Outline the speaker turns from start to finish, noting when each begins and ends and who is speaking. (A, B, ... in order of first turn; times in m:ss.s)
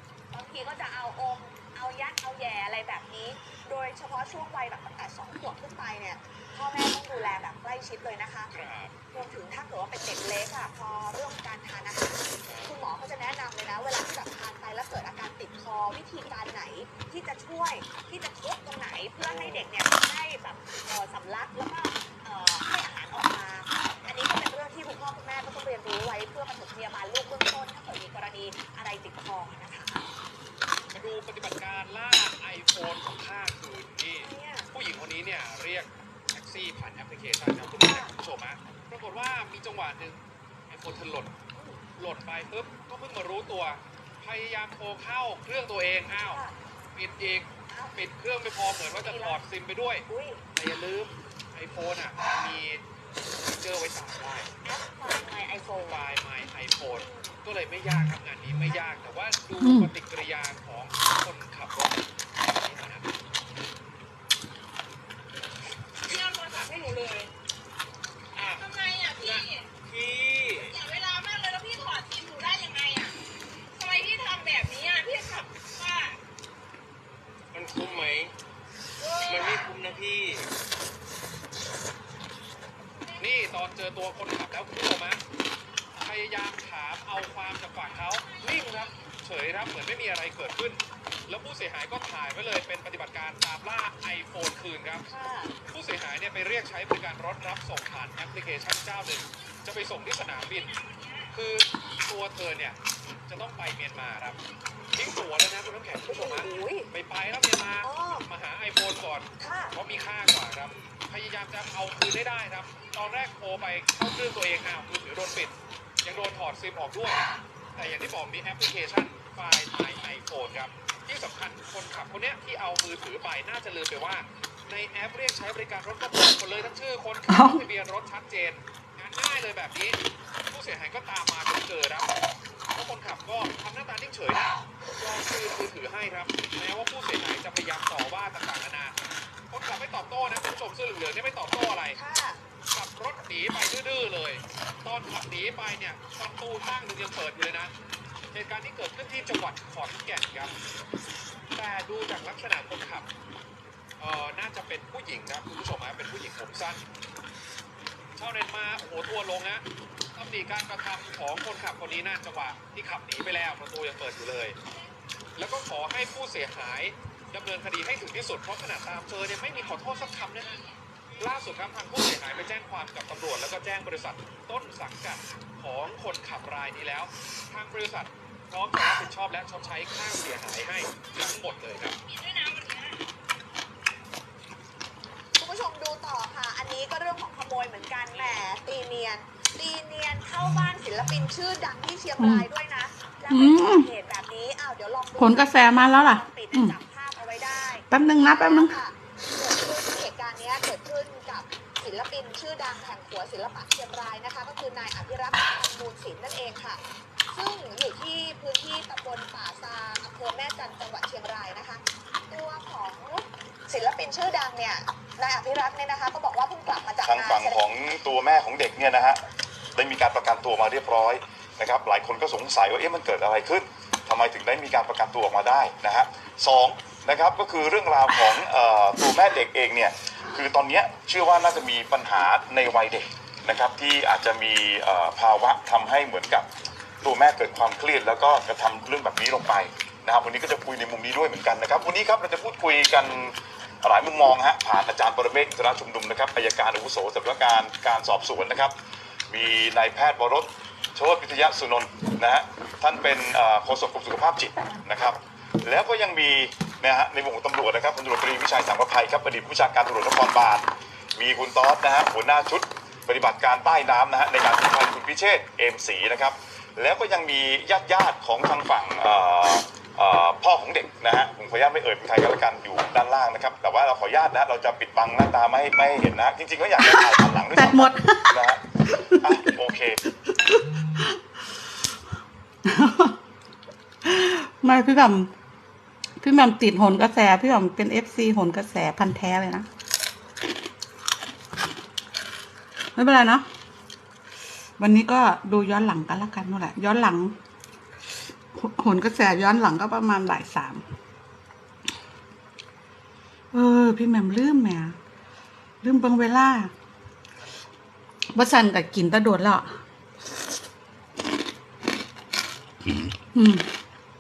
0:00.3-0:08.5 A
0:08.5-0:09.0 B
0:09.1-0:30.0 A
0:12.4-0:12.8 B
0:19.2-0:19.7 B
0:30.9-0:40.2 B
0:34.2-0:34.7 A
0:37.8-0:38.1 A
0:40.7-0:41.3 B
0:41.5-0:41.8 A
0:42.0-0:46.4 B
0:46.3-0:46.5 A
0:46.9-0:52.8 B
0:47.7-0:48.0 A
0:48.9-0:49.4 A
0:50.1-0:50.4 A
0:53.4-0:54.5 B
0:54.6-0:56.0 A
0:55.8-1:03.0 B
0:57.0-0:57.4 A
0:59.6-0:59.9 C
1:06.0-1:07.3 D
1:08.5-1:09.7 D
1:09.8-1:10.8 E
1:10.6-1:13.1 D
1:13.8-1:16.2 D
1:17.5-1:18.3 E
1:19.0-1:19.7 D
1:19.3-1:20.5 E
1:23.2-1:25.2 B
1:26.0-1:35.0 B
1:35.1-1:35.5 A
1:35.7-1:40.8 B
1:41.3-1:44.4 B
1:44.9-2:12.1 B
1:46.1-1:46.9 A
1:47.8-1:48.2 A
1:49.4-1:49.8 A
2:07.3-2:07.6 C
2:12.7-2:19.0 B
2:19.5-2:22.0 B
2:22.0-2:22.4 A
2:22.7-2:27.7 B
2:28.3-2:30.5 B
2:31.5-2:33.1 B
2:34.0-2:36.8 B
2:38.2-2:39.6 B
2:40.1-2:44.6 B
2:45.4-2:50.6 B
2:51.2-3:02.0 B
3:02.0-3:03.0 D
3:05.4-3:37.6 A
3:08.1-3:08.4 B
3:12.2-3:12.5 C
3:13.3-3:13.9 C
3:15.2-3:16.8 C
3:17.9-3:18.8 C
3:37.0-3:39.2 F
3:39.8-3:56.5 F
3:57.0-4:08.7 F
4:09.3-4:20.6 F
4:21.2-4:38.6 F
4:36.8-4:39.5 C
4:39.2-4:40.0 F
4:40.1-4:41.2 C
4:42.6-4:43.2 C
4:44.0-4:45.3 C
4:46.2-4:49.7 C
4:52.9-4:53.4 C
4:54.8-4:57.3 C
4:58.5-5:00.8 C
5:03.5-5:05.0 C
5:05.8-5:06.7 C
5:08.3-5:09.7 C
5:13.3-5:13.7 C